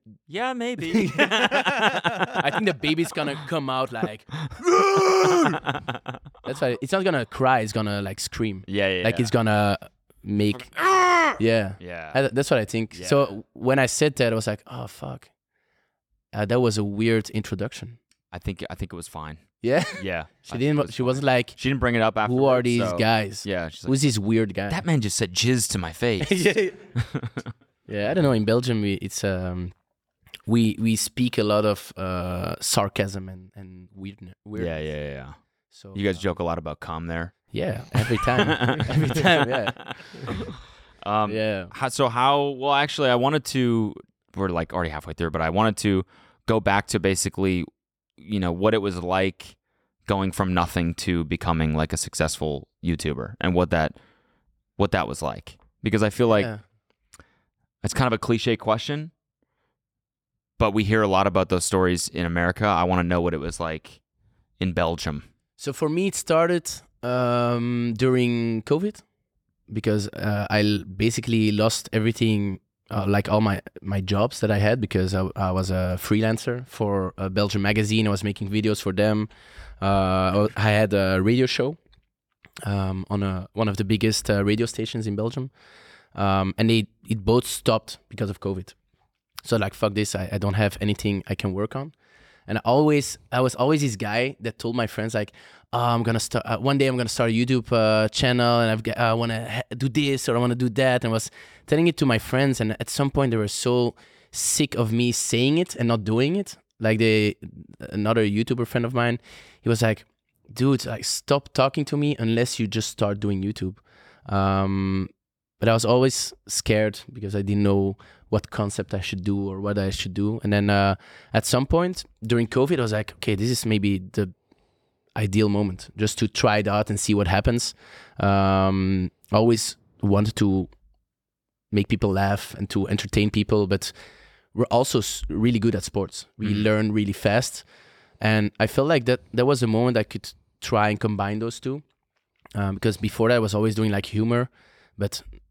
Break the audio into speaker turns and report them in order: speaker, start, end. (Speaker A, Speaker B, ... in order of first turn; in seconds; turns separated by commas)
Speaker A: 0.3-2.5, Speaker B: 0.9-1.5, Speaker B: 2.3-5.6, Speaker A: 4.6-6.1, Speaker B: 6.4-10.8, Speaker A: 8.7-9.3, Speaker A: 10.8-12.2, Speaker B: 11.3-15.3, Speaker A: 12.9-13.2, Speaker B: 16.3-18.0, Speaker A: 18.3-24.0, Speaker B: 19.6-21.6, Speaker B: 22.2-24.8, Speaker A: 24.7-27.5, Speaker B: 26.2-26.9, Speaker B: 27.9-29.7, Speaker B: 30.4-34.8, Speaker A: 34.5-35.3, Speaker B: 35.7-36.2, Speaker A: 35.9-37.4, Speaker B: 37.5-40.0, Speaker A: 37.9-47.6, Speaker B: 41.2-41.7, Speaker A: 48.2-53.9, Speaker A: 54.8-56.5, Speaker B: 56.3-56.6, Speaker A: 57.8-59.1, Speaker A: 60.6-64.0, Speaker A: 64.6-65.3, Speaker B: 65.6-69.0, Speaker B: 69.7-81.8, Speaker B: 82.6-85.5, Speaker B: 86.1-88.8, Speaker B: 89.4-91.9, Speaker B: 92.5-124.3, Speaker B: 125.1-130.7, Speaker B: 131.7-133.9, Speaker B: 134.5-137.6, Speaker B: 138.2-141.8, Speaker B: 142.6-145.2